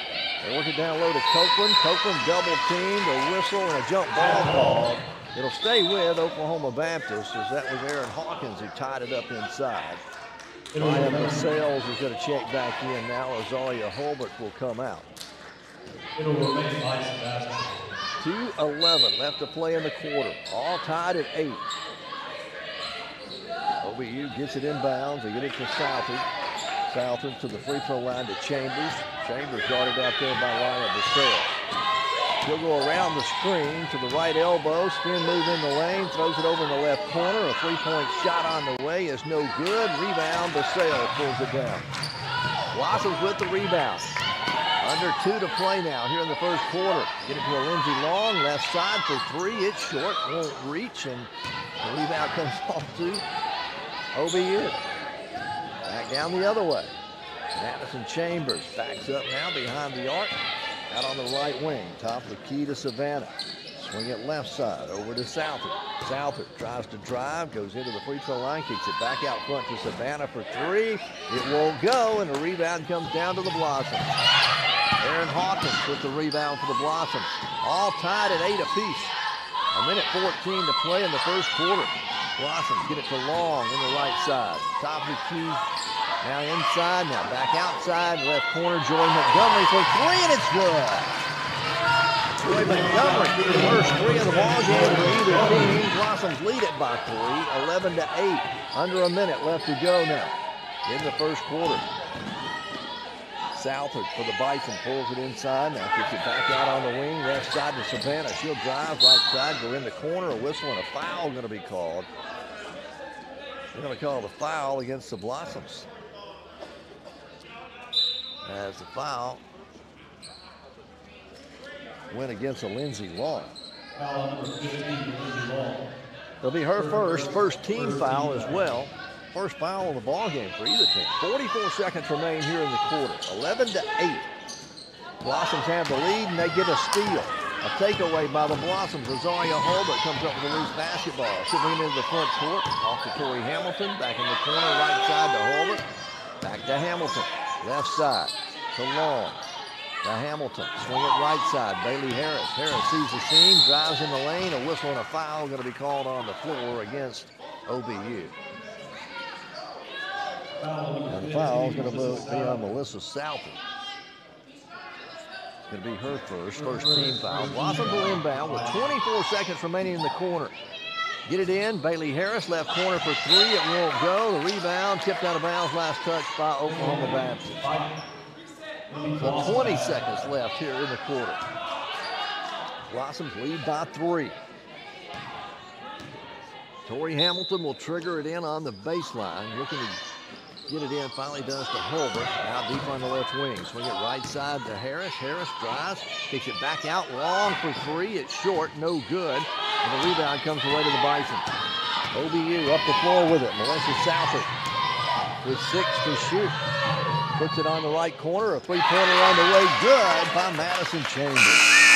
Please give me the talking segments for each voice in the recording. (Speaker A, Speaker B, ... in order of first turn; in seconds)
Speaker A: 0.4-10.0, 10.8-15.1, 18.2-21.6, 23.8-26.3, 26.9-31.5, 32.4-41.9, 42.7-44.1, 44.8-53.2, 54.1-54.8, 55.9-56.9, 57.5-74.2, 75.0-79.1, 79.7-85.6, 86.2-91.2, 92.4-101.9, 103.5-112.1, 113.7-115.9, 118.4-119.4, 122.1-123.5, 126.4-134.3, 135.2-145.8, 146.4-149.4, 150.0-158.4, 161.1-163.6, 165.7-170.6, 171.2-177.6, 179.2-181.4, 182.9-184.4, 186.8-190.0, 190.7-201.5, 202.1-204.5, 205.4-206.6, 207.3-211.7
Speaker B: 4.1-4.8, 10.7-11.5, 16.1-18.0, 92.4-95.9, 123.9-125.9, 126.7-128.7, 160.6-162.8, 166.5-168.9, 176.6-178.0, 178.9-180.3